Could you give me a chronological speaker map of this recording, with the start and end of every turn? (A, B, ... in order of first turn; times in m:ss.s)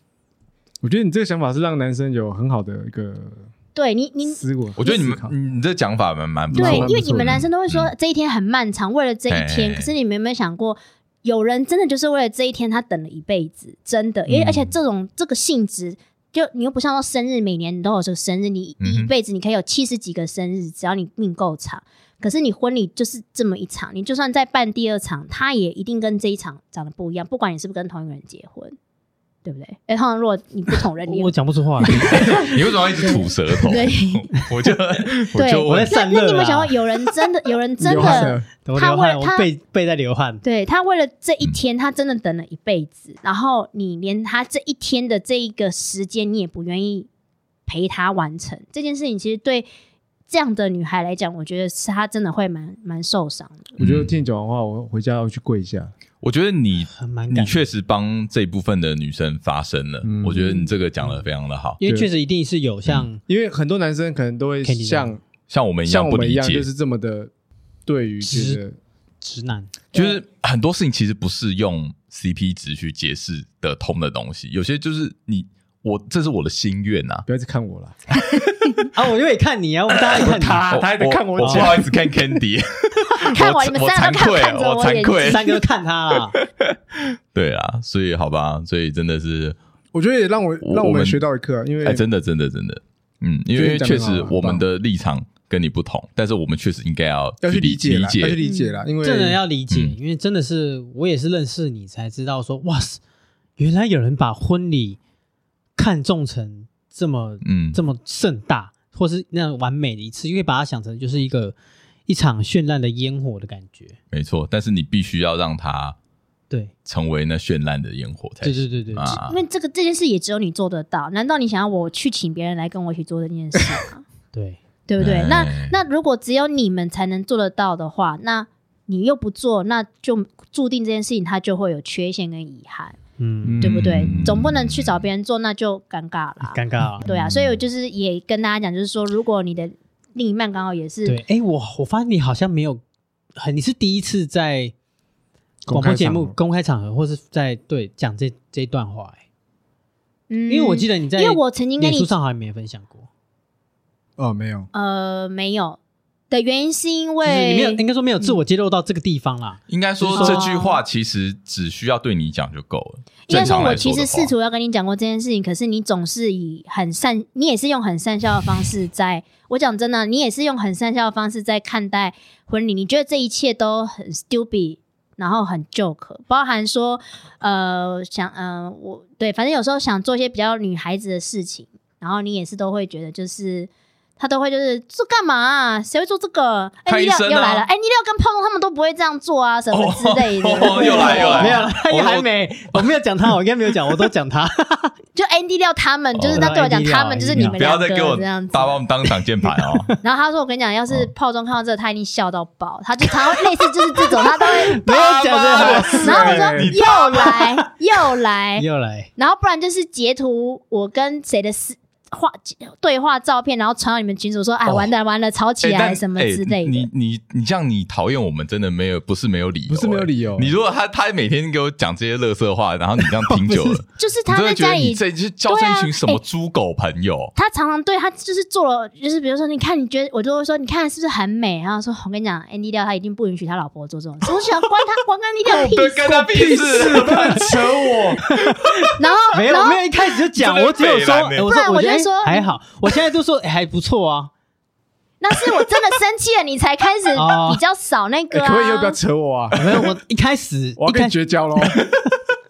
0:00.8-0:03.4 A
0:03.7-0:05.0 B
0:04.3-0:05.3 A
0:04.8-0:07.9 C
0:06.5-0:07.4 A
0:06.5-0:28.8 B
0:09.3-0:09.9 C
0:14.3-0:14.7 A
0:18.8-0:19.1 C
0:29.4-0:34.4 B
0:31.0-0:32.4 D
0:31.9-0:36.0 C
0:35.3-0:39.5 B
0:35.7-0:36.8 D
0:37.8-0:38.5 A
0:37.9-0:40.4 D
0:40.4-0:47.1 B
0:47.7-0:49.7 B
0:50.3-0:53.7 B
0:53.8-0:55.9 A
0:53.8-0:54.2 C
0:56.2-1:01.8 C
0:56.9-0:57.6 D
1:00.0-1:00.7 A
1:01.8-1:03.2 D
1:01.8-1:02.1 A
1:03.3-1:05.2 A
1:04.6-1:05.1 D
1:05.5-1:06.7 C
1:05.9-1:07.3 A
1:07.9-1:08.8 A
1:08.2-1:08.6 D
1:09.2-1:09.8 D
1:09.9-1:17.3 C
1:17.3-1:18.0 A
1:18.9-1:20.7 D
1:20.0-1:25.6 C
1:20.2-1:21.9 A
1:21.4-1:21.7 D
1:23.2-1:25.4 B
1:25.2-1:26.4 D
1:26.3-1:29.6 C
1:29.9-1:32.0 A
1:30.6-1:31.2 C
1:31.8-1:38.4 C
1:33.6-1:34.6 A
1:37.4-1:39.4 A
1:38.4-1:38.8 B
1:39.0-1:43.0 D
1:39.7-1:40.0 C
1:43.6-1:45.0 D
1:45.8-1:51.6 D
1:47.4-1:47.8 C
1:52.1-1:54.0 D
1:54.1-1:56.0 C
1:56.9-1:59.4 C
1:58.4-1:59.2 D
1:59.1-2:04.0 B
2:04.3-2:04.6 D
2:04.9-2:13.0 B
2:05.0-2:05.8 C
2:13.2-2:13.6 D
2:13.4-2:14.2 A
2:13.6-2:15.0 C
2:13.6-2:21.2 B
2:16.5-2:17.1 D
2:21.0-2:22.8 D
2:23.4-2:24.7 D
2:25.7-2:26.4 A
2:25.7-2:29.2 D
2:30.3-2:32.1 B
2:30.5-2:33.1 D
2:34.2-2:34.7 A
2:34.7-2:35.8 B
2:36.3-2:38.4 B
2:37.2-2:40.4 D
2:39.7-2:44.3 C
2:40.1-2:40.8 B
2:43.3-3:11.6 B
3:06.9-3:07.6 C
3:09.7-3:12.9 C
3:10.6-3:15.0 D
3:15.1-3:18.8 B
3:16.1-3:16.5 C
3:16.3-3:17.6 D
3:17.3-3:20.0 C
3:19.6-3:19.9 D
3:20.0-3:28.7 B
3:24.0-3:27.6 D
3:24.8-3:27.3 C
3:25.6-3:26.7 A
3:28.6-3:29.1 D
3:29.2-3:36.9 B
3:35.6-3:47.3 C
3:39.7-3:40.6 A
3:43.1-3:43.8 D
3:44.0-3:46.2 B
3:47.4-3:56.2 B
3:55.5-3:58.9 C
3:56.0-3:58.2 A
3:58.4-4:04.3 D
3:59.0-3:59.8 B
4:00.3-4:01.4 C
4:01.4-4:02.5 B
4:05.2-4:09.0 B
4:07.1-4:07.6 D
4:08.3-4:09.9 A
4:09.5-4:11.8 D
4:10.8-4:11.8 A